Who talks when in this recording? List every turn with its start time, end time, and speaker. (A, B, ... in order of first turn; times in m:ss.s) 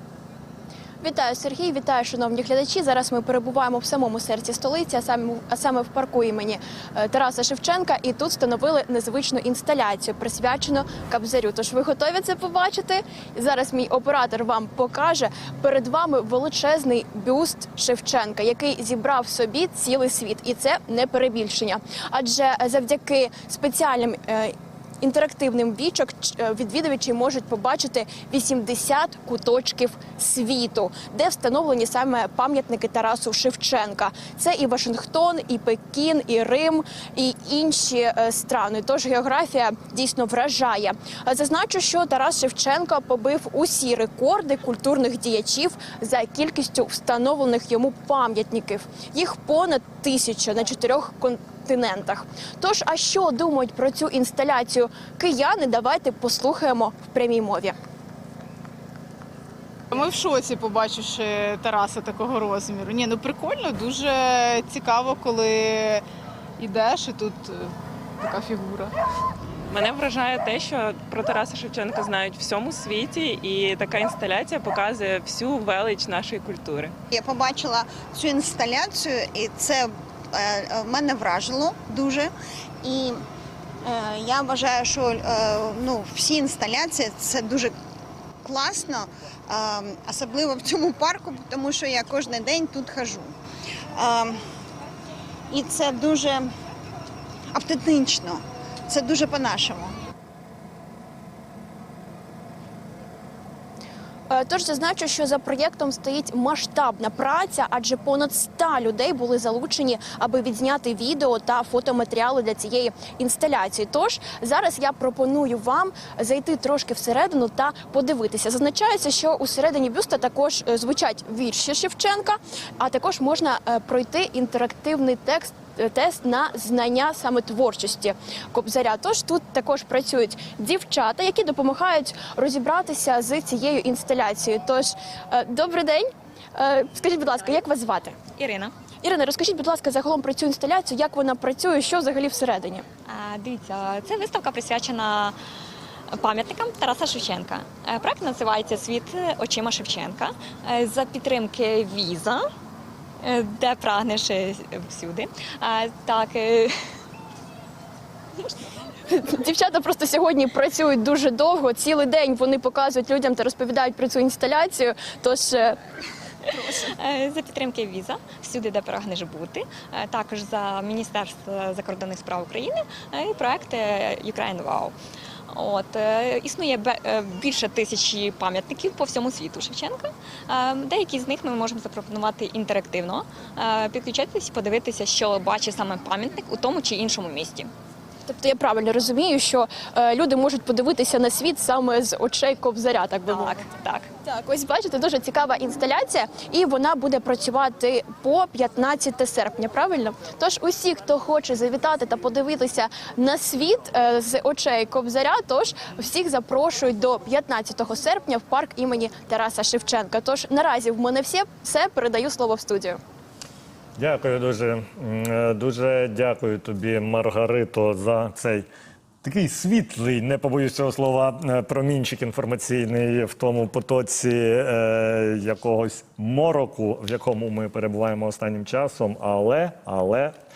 0:01.0-0:57.8 A
0:59.9-1:06.0 B
1:06.6-1:08.9 B
1:09.7-1:16.9 C
1:17.1-1:22.3 D
1:22.8-1:23.2 D
1:23.8-1:27.7 D
1:28.4-1:33.3 D
1:33.9-1:34.4 D
1:35.5-1:36.5 D
1:37.5-1:39.9 D
1:44.3-2:18.2 A
2:18.4-2:18.7 E
2:19.0-2:22.8 A
2:23.1-2:25.4 E
2:26.1-2:32.4 E
2:33.2-2:36.7 E
2:39.1-2:45.8 A
2:46.7-2:54.9 E
2:55.5-3:07.7 E
3:08.2-3:13.5 A
3:13.3-3:14.1 E
3:14.2-3:33.0 A
3:34.0-3:38.7 F
3:39.2-3:50.3 F